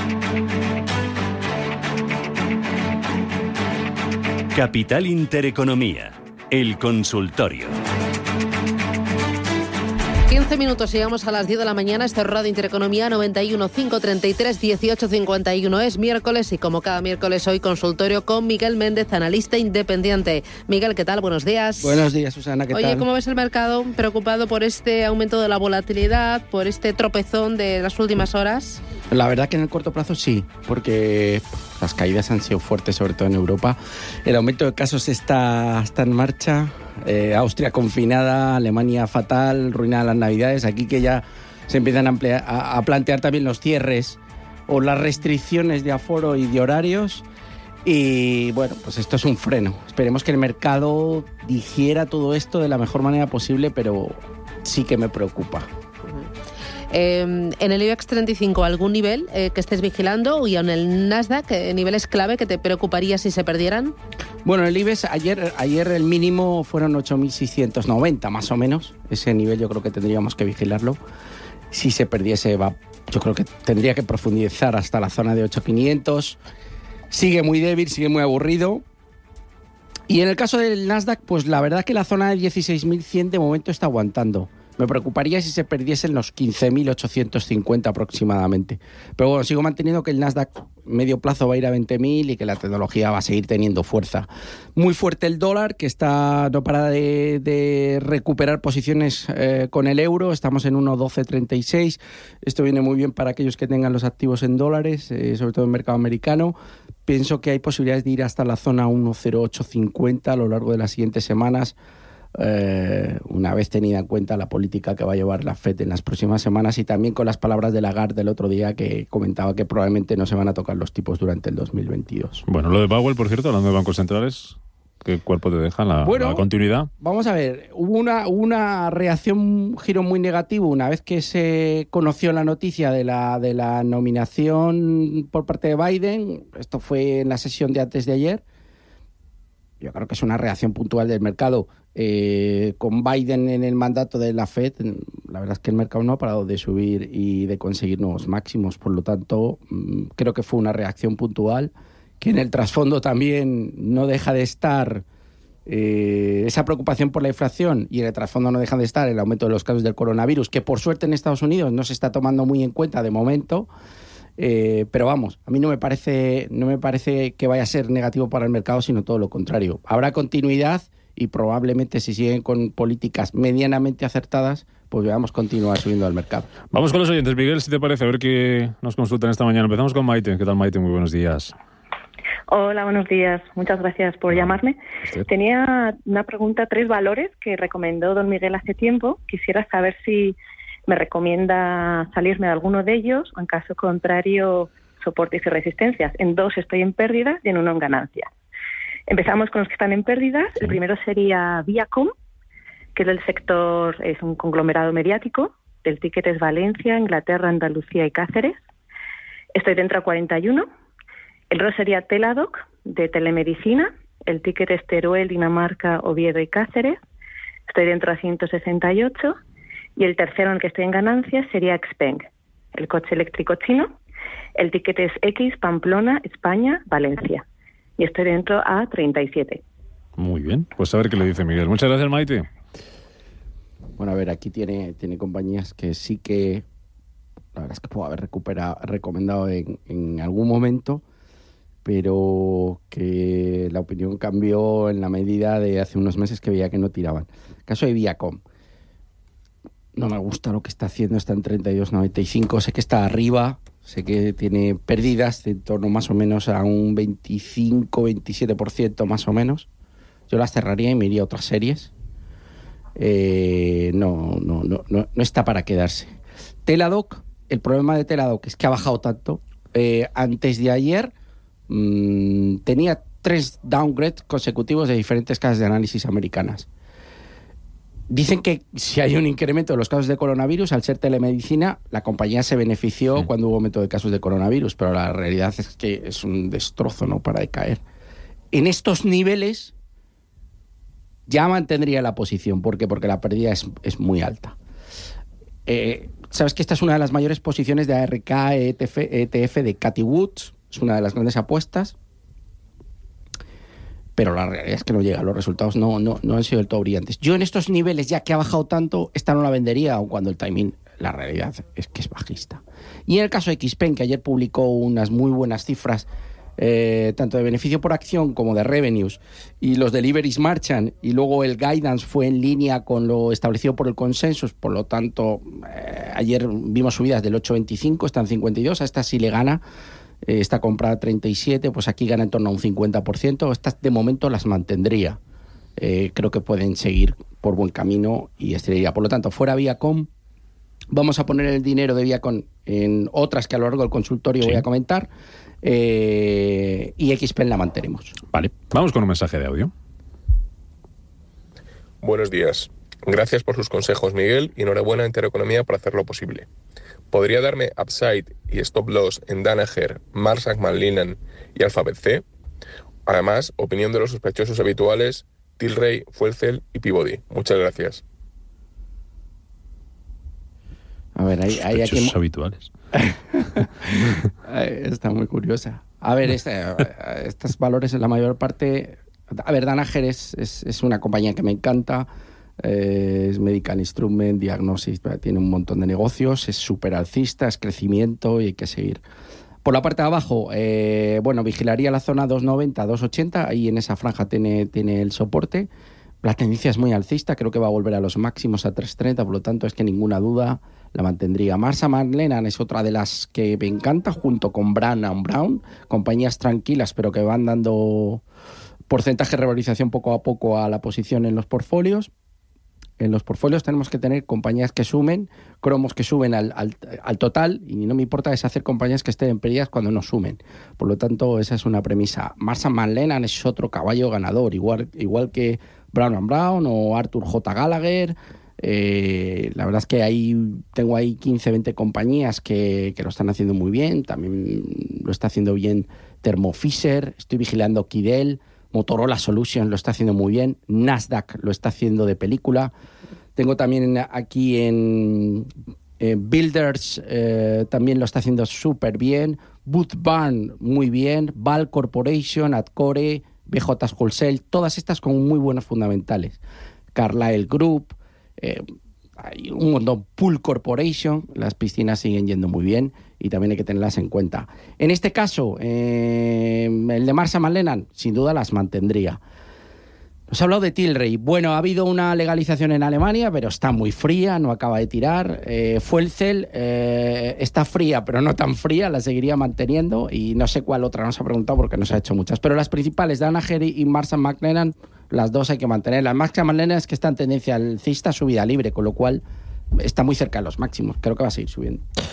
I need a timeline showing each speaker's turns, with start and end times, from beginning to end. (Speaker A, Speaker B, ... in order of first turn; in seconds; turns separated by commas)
Speaker A: 4.5-7.8, Speaker B: 10.3-22.0, Speaker C: 21.8-23.0, Speaker B: 22.7-28.8, Speaker C: 29.1-47.2, Speaker C: 47.8-55.7, Speaker B: 56.9-64.0, Speaker C: 64.4-71.0, Speaker C: 71.7-76.4, Speaker C: 77.1-78.8, Speaker C: 80.1-106.5, Speaker C: 107.0-111.8, Speaker C: 112.3-122.4, Speaker D: 122.5-126.9, Speaker C: 126.0-126.5, Speaker C: 127.0-138.4, Speaker C: 139.8-155.0, Speaker C: 155.7-163.7, Speaker C: 164.4-176.5, Speaker D: 176.7-181.5, Speaker E: 182.5-190.3, Speaker E: 190.9-198.3, Speaker E: 199.1-202.1, Speaker E: 202.9-208.6, Speaker E: 209.5-210.7, Speaker E: 211.5-217.0, Speaker E: 217.7-219.4, Speaker E: 220.0-223.9, Speaker E: 224.6-227.4, Speaker E: 228.0-229.6, Speaker D: 230.2-232.5, Speaker C: 234.0-236.6, Speaker C: 237.5-241.0, Speaker C: 241.8-248.4, Speaker C: 249.9-259.7, Speaker C: 260.3-261.9, Speaker C: 262.9-266.1, Speaker C: 266.6-271.1, Speaker C: 271.7-276.7, Speaker C: 278.1-287.8, Speaker C: 288.5-289.7, Speaker C: 291.3-294.6, Speaker C: 295.6-301.9, Speaker C: 304.1-329.6, Speaker C: 330.2-335.2, Speaker C: 335.8-340.1, Speaker C: 340.9-345.1, Speaker C: 345.6-348.2, Speaker D: 348.3-349.7, Speaker F: 352.0-356.5, Speaker F: 357.1-362.2, Speaker F: 363.1-368.0, Speaker C: 371.1-372.1, Speaker D: 371.6-372.7, Speaker C: 372.9-382.1, Speaker C: 382.6-389.0, Speaker C: 389.6-395.7, Speaker C: 396.2-408.2, Speaker C: 408.9-412.1, Speaker C: 413.0-442.7, Speaker C: 443.4-456.4, Speaker C: 456.9-458.6, Speaker C: 459.2-469.2, Speaker C: 470.3-489.2, Speaker C: 489.7-491.8